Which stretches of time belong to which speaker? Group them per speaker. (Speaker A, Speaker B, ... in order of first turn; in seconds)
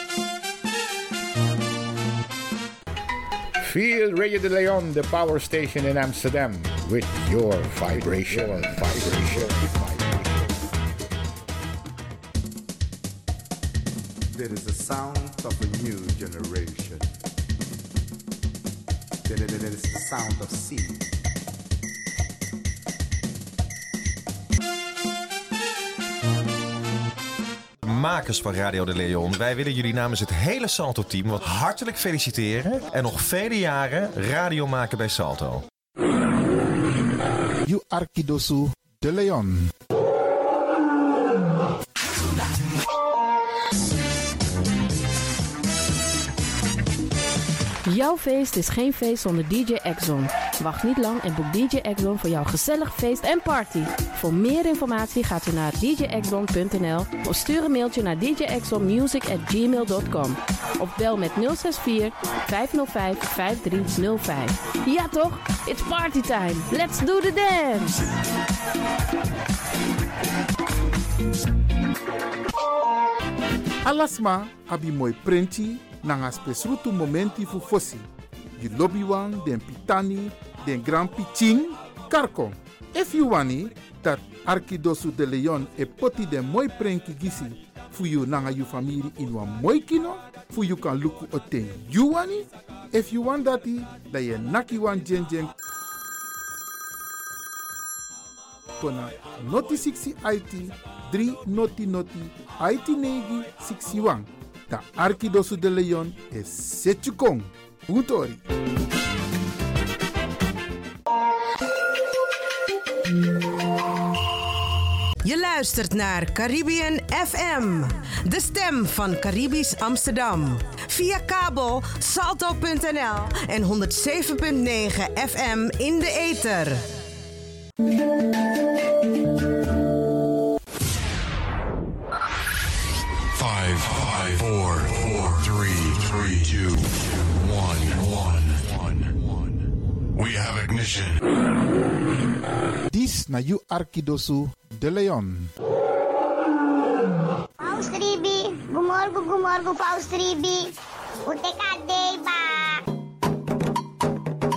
Speaker A: 3.6-5.4, 6.9-8.6
Speaker B: 9.0-9.5, 14.4-17.1, 19.3-21.0
Speaker C: 14.4-16.8, 37.6-39.7, 73.8-95.5, 98.8-108.4, 142.9-145.5
Speaker D: 27.8-35.6
Speaker E: 47.9-68.0
Speaker F: 115.2-126.9
Speaker G: 133.3-139.2, 140.1-141.2
Speaker H: 147.6-150.7, 151.2-152.8